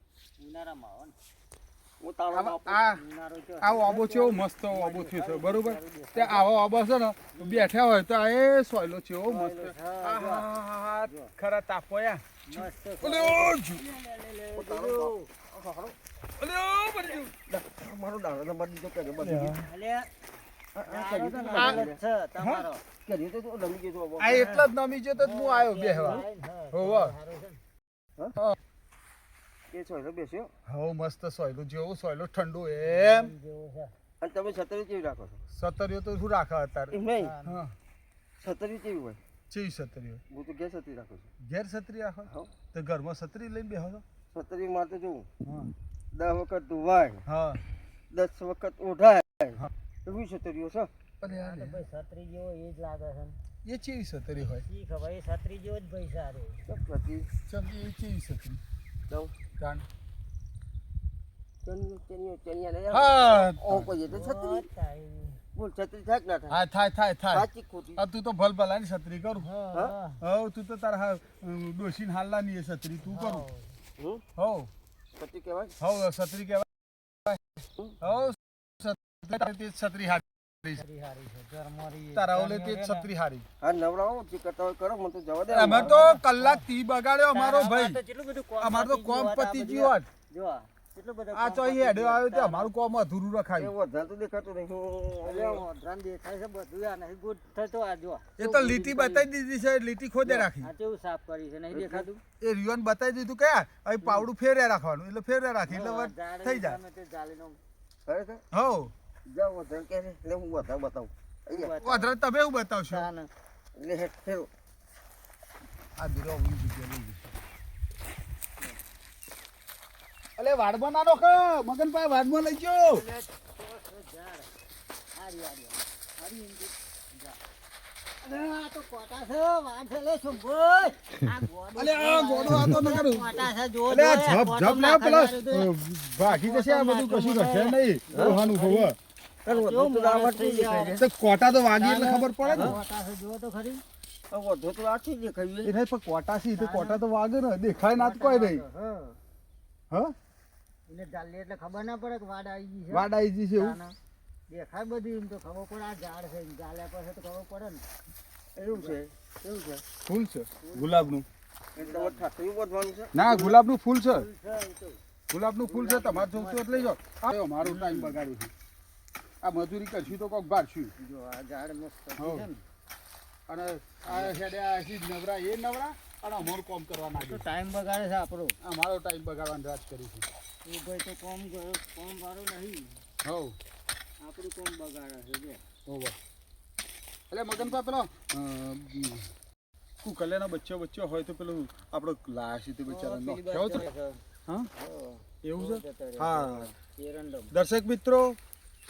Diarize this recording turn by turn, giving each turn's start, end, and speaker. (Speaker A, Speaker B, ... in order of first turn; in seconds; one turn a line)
Speaker A: 0.4-1.1
Speaker B: 2.0-2.8
Speaker C: 2.3-3.0
Speaker A: 2.9-6.5
Speaker C: 3.6-13.8
Speaker A: 7.3-7.7
Speaker A: 9.3-10.5
Speaker A: 11.0-11.3
Speaker A: 12.5-15.3
Speaker B: 14.6-16.0
Speaker C: 16.4-17.3
Speaker B: 17.5-19.6
Speaker C: 19.2-19.7
Speaker A: 19.4-20.1
Speaker B: 20.8-22.0
Speaker A: 20.9-22.8
Speaker C: 21.5-21.8
Speaker C: 22.4-22.6
Speaker B: 23.1-24.6
Speaker C: 24.2-27.1
Speaker A: 24.3-27.6
Speaker B: 29.7-30.5
Speaker C: 30.7-33.3
Speaker A: 32.8-33.9
Speaker B: 34.2-35.4
Speaker C: 35.5-37.7
Speaker B: 36.9-37.4
Speaker A: 37.2-37.6
Speaker B: 38.4-39.2
Speaker C: 39.5-40.2
Speaker B: 40.3-41.3
Speaker C: 41.4-44.0
Speaker B: 42.3-42.5
Speaker B: 44.3-45.3
Speaker C: 45.4-45.7
Speaker B: 46.1-47.2
Speaker C: 47.3-47.6
Speaker B: 48.1-50.9
Speaker C: 51.2-51.8
Speaker A: 51.3-53.4
Speaker C: 53.6-54.6
Speaker A: 54.4-56.6
Speaker B: 56.7-57.3
Speaker C: 57.5-58.6
Speaker B: 59.1-59.3
Speaker C: 59.6-59.8
Speaker B: 61.6-64.7
Speaker C: 62.9-63.9
Speaker A: 64.1-65.4
Speaker B: 65.5-66.6
Speaker C: 66.5-69.5
Speaker B: 67.3-68.0
Speaker A: 69.4-70.2
Speaker C: 70.2-73.5
Speaker A: 73.1-73.8
Speaker B: 74.0-74.2
Speaker C: 74.4-74.7
Speaker B: 75.1-75.8
Speaker C: 75.8-76.7
Speaker C: 78.0-80.8
Speaker A: 80.8-83.1
Speaker C: 82.2-83.5
Speaker B: 83.6-86.1
Speaker C: 85.5-88.0
Speaker A: 85.6-86.7
Speaker A: 87.3-92.7
Speaker C: 88.6-90.1
Speaker C: 91.3-93.7
Speaker B: 93.6-95.6
Speaker A: 95.2-99.3
Speaker C: 98.4-100.7
Speaker A: 100.3-102.2
Speaker B: 101.7-102.1
Speaker C: 102.4-106.8
Speaker A: 105.7-107.6
Speaker B: 108.1-108.4
Speaker C: 108.5-108.9
Speaker B: 109.3-111.8
Speaker A: 111.5-112.2
Speaker C: 111.8-113.1
Speaker A: 112.9-113.3
Speaker B: 113.8-114.5
Speaker C: 116.0-117.3
Speaker C: 120.4-123.0
Speaker A: 122.9-124.5
Speaker A: 125.1-127.4
Speaker A: 128.2-138.9
Speaker C: 131.8-139.0
Speaker B: 139.5-141.0
Speaker A: 139.5-141.0
Speaker C: 141.0-142.8
Speaker A: 141.7-143.8
Speaker B: 144.3-145.7
Speaker C: 145.6-148.6
Speaker A: 146.5-147.0
Speaker A: 147.8-149.2
Speaker A: 150.9-154.0
Speaker C: 152.9-153.8
Speaker A: 154.5-157.8
Speaker B: 158.6-159.9
Speaker C: 160.0-161.3
Speaker A: 160.6-161.2
Speaker A: 161.8-162.2
Speaker B: 161.8-163.2
Speaker C: 163.1-164.3
Speaker A: 163.3-163.6
Speaker A: 164.1-165.0
Speaker C: 165.3-168.5
Speaker A: 165.6-167.0
Speaker A: 167.6-168.2
Speaker C: 169.4-170.9
Speaker A: 171.0-172.6
Speaker C: 172.2-172.5
Speaker C: 173.5-177.4
Speaker A: 174.1-174.4
Speaker A: 177.1-178.6
Speaker C: 178.6-180.3
Speaker A: 180.7-183.0
Speaker C: 183.2-183.6
Speaker A: 184.2-185.7
Speaker C: 185.9-186.2
Speaker C: 187.3-189.3
Speaker C: 190.0-193.9
Speaker A: 192.9-194.2
Speaker A: 194.7-197.5
Speaker C: 195.4-196.7
Speaker C: 197.5-198.4